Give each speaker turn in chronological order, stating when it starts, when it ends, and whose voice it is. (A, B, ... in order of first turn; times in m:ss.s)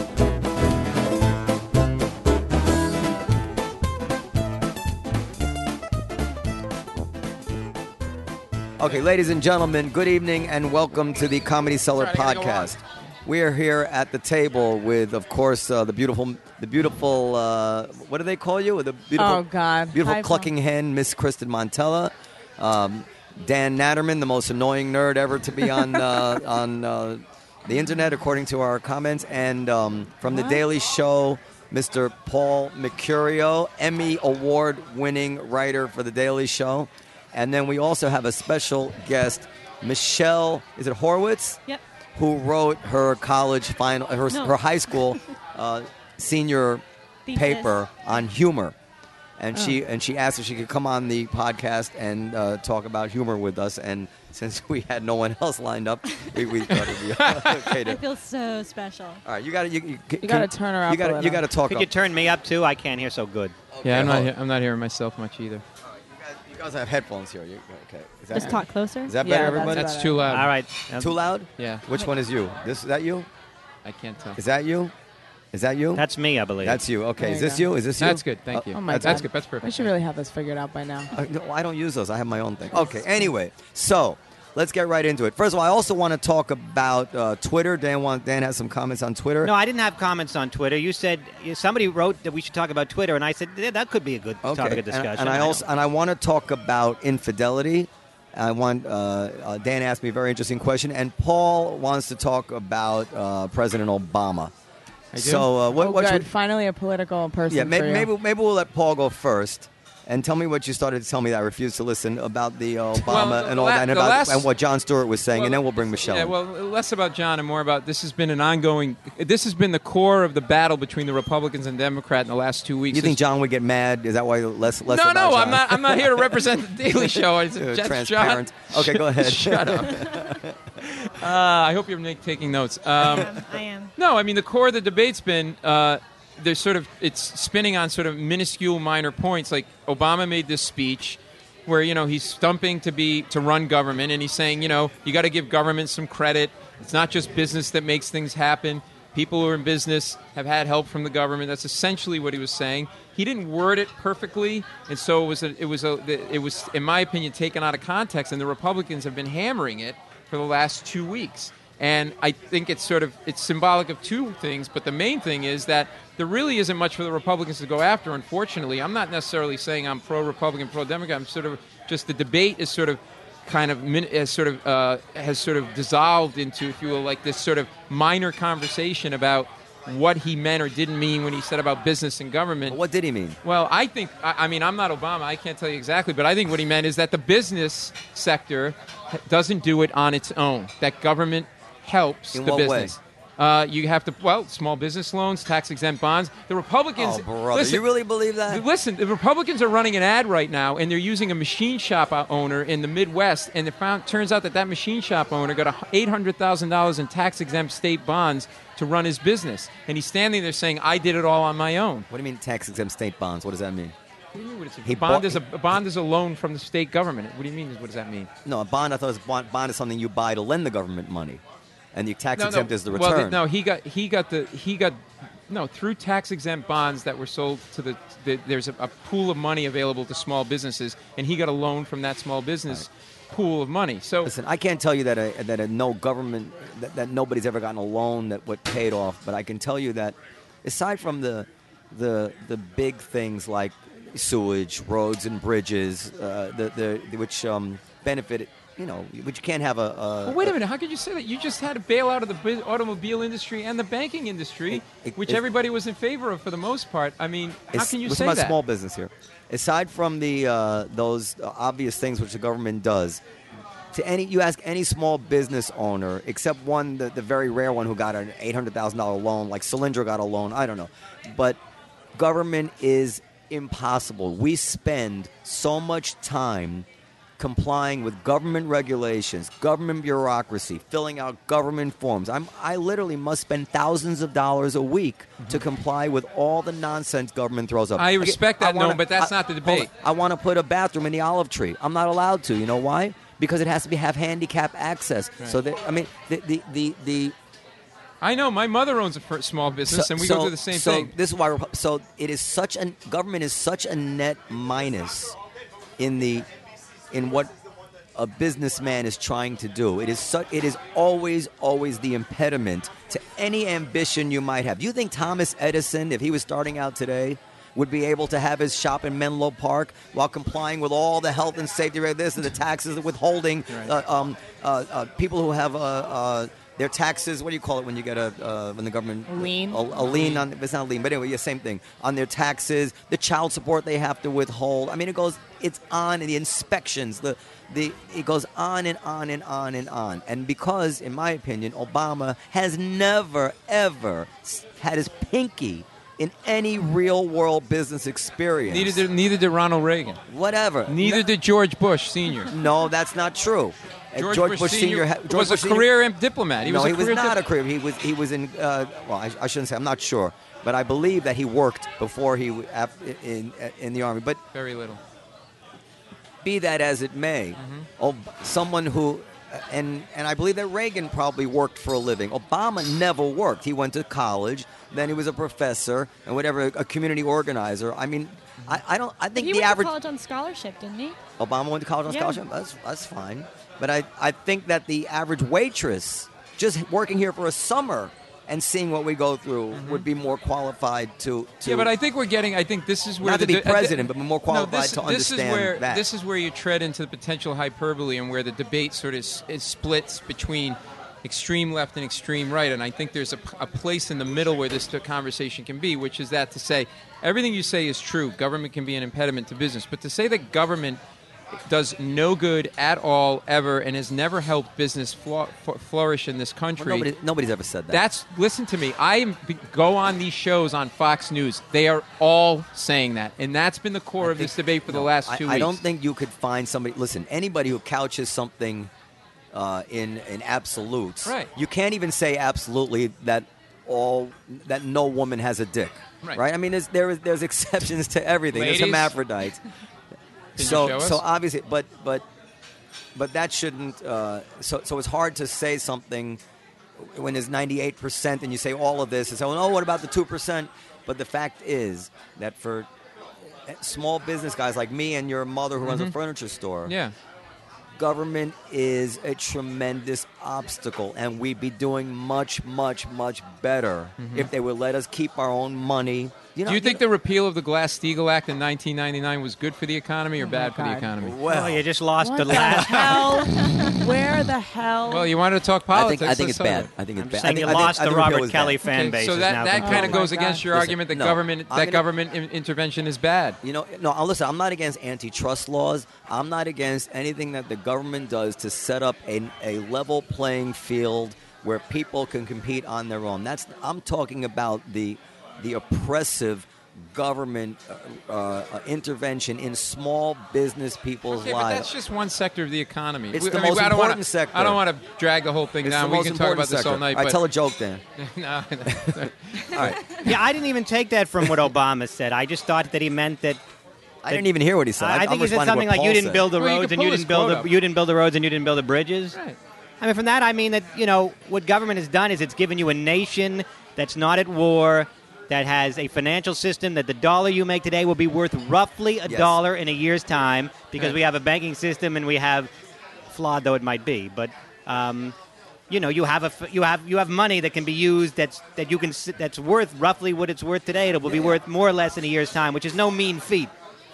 0:08.8-0:41.6 A
0:11.9-0:12.7 B
0:19.2-0:20.5 B
0:42.2-0:48.7 A
0:44.3-0:44.6 C
0:47.2-0:47.7 C
0:49.4-0:58.0 A
0:56.7-0:57.7 D
0:57.8-0:59.2 C
0:59.2-1:01.9 A
1:00.2-1:01.5 B
1:01.7-1:03.6 E
1:03.7-1:04.3 A
1:03.8-1:05.6 D
1:06.1-1:09.9 A
1:08.3-1:09.2 C
1:09.2-1:10.3 B
1:09.7-1:10.5 D
1:10.2-1:11.2 E
1:11.0-1:13.3 A
1:11.6-1:11.8 D
1:13.8-1:14.4 D
1:14.4-1:14.9 A
1:15.5-1:16.0 A
1:15.9-1:16.8 E
1:16.6-1:19.2 A
1:17.2-1:17.6 B
1:18.0-1:19.9 D
1:18.7-1:21.1 B
1:21.1-1:29.5 A
1:29.4-1:35.6 E
1:34.4-1:44.5 A
1:45.1-1:45.5 D
1:45.1-1:46.3 A
1:45.8-1:48.1 B
1:47.5-1:56.3 A
1:52.9-1:54.5 D
1:55.3-2:03.2 D
2:02.9-2:06.3 A
2:04.8-2:10.2 D
2:07.5-2:10.6 A
2:10.8-2:13.4 D
2:13.0-2:13.9 C
2:14.0-3:02.8 D
3:02.7-3:03.4 A
3:03.4-3:17.9 D
3:12.3-3:13.0 A
3:17.0-3:18.6 A
3:18.4-3:32.1 D
3:32.1-3:33.9 A
3:34.3-3:38.3 D
3:34.8-3:35.4 A
3:38.4-3:41.4 A
3:41.9-3:43.4 A
3:42.4-3:54.3 D
3:54.2-4:10.6 A
4:10.2-4:18.6 D
4:14.8-4:15.4 A
4:17.7-4:23.2 A
4:23.9-4:31.6 A
4:32.2-4:36.8 A
4:37.4-4:57.3 A
4:48.0-4:49.9 D
4:58.2-5:01.1 D
4:59.9-5:05.4 A
5:06.0-5:06.5 A
5:07.1-5:07.5 A
5:08.2-5:49.0 A
5:23.7-5:23.9 D
5:29.3-5:29.8 B
5:29.9-5:30.4 D
5:48.7-5:50.2 D
5:50.3-5:51.2 A
5:50.8-5:52.5 D
5:52.5-5:55.9 A
5:54.1-5:57.4 D
5:56.6-6:04.4 A
6:04.5-6:05.0 D
6:06.4-6:19.9 A
6:07.6-6:07.9 D
6:19.4-6:21.2 C
6:21.4-6:31.9 A
6:22.1-6:22.4 C
6:29.7-6:30.1 D
6:31.6-6:51.0 D
6:33.2-6:36.0 A
6:51.7-6:57.1 D
6:56.8-6:58.0 A
6:57.9-7:05.8 D
7:04.2-7:08.9 A
7:09.5-7:19.6 A
7:11.2-7:11.5 D
7:18.5-7:19.2 D
7:20.6-7:21.2 D
7:20.6-7:22.2 A
7:23.1-7:26.4 A
7:27.0-7:32.9 A
7:33.4-7:36.9 A
7:35.8-7:36.2 D
7:36.8-7:37.1 D
7:38.0-7:47.0 A
7:44.2-7:44.5 D
7:46.6-7:51.4 D
7:50.4-7:51.1 B
7:51.2-7:51.8 A
7:51.5-7:53.5 E
7:52.2-7:55.3 B
7:52.5-7:53.4 A
7:53.4-7:54.0 C
7:55.0-7:57.7 D
7:55.9-7:58.8 A
7:57.4-8:00.2 E
7:58.8-8:03.6 D
7:59.7-8:00.6 B
8:00.7-8:02.0 A
8:03.6-8:21.9 A
8:21.3-8:27.4 D
8:23.3-8:24.8 A
8:25.8-8:28.0 A
8:28.2-8:30.2 D
8:28.9-8:30.2 A
8:30.2-8:33.6 E
8:34.2-8:36.5 A
8:35.0-8:39.4 E
8:36.5-8:37.7 D
8:40.0-8:52.7 E
8:49.2-8:49.6 A
8:53.3-8:55.3 E
8:55.9-9:03.7 E
9:01.3-9:01.6 A